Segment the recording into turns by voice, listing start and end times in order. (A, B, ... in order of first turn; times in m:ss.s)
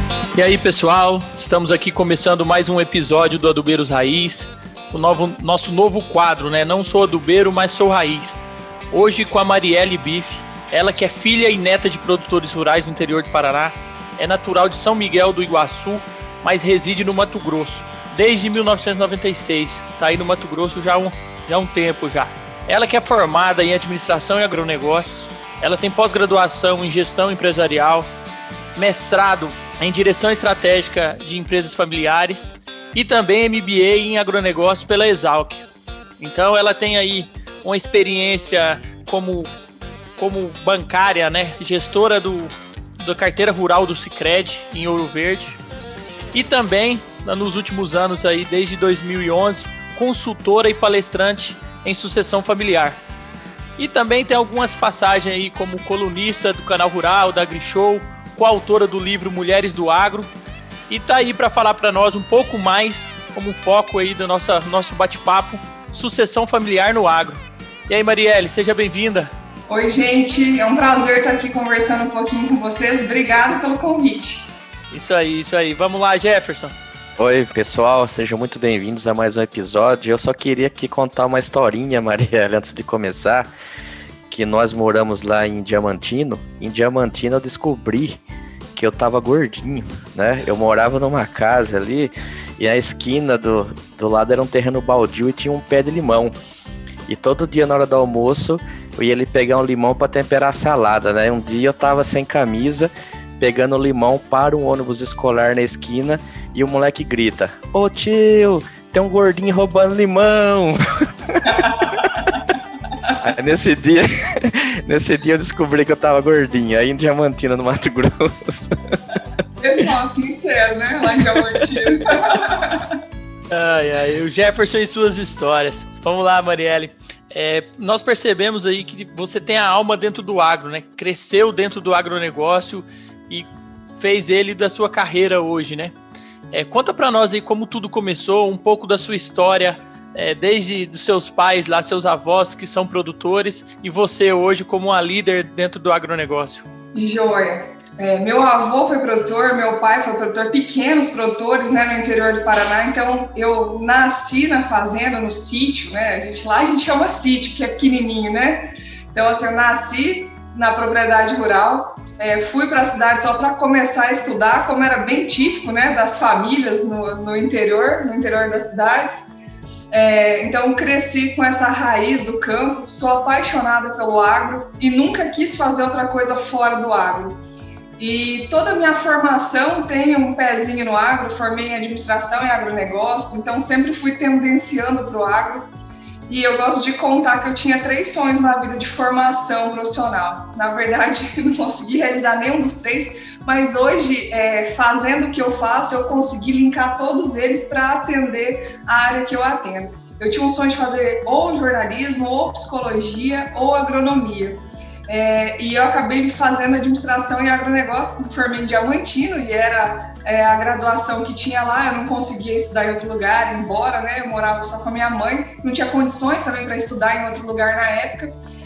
0:00.3-0:28.1 A
0:28.7-0:35.6 A
0:36.2-0:39.5 A
0:40.2-0:45.6 A
0:46.3-0:53.0 A
0:53.8-1:00.3 A
1:00.9-1:09.3 A
1:09.7-1:14.5 B
1:14.9-1:16.7 A
1:17.2-1:23.5 C
1:24.3-1:28.2 C
1:28.7-1:36.3 C
1:37.1-1:51.9 C
1:51.5-1:52.3 B
1:53.2-1:58.7 C
1:59.6-2:03.0 B
2:03.5-2:15.9 A
2:16.5-2:26.6 A
2:26.9-2:49.2 B
2:49.9-2:57.4 B
2:58.0-3:05.7 B
3:06.3-3:38.3 B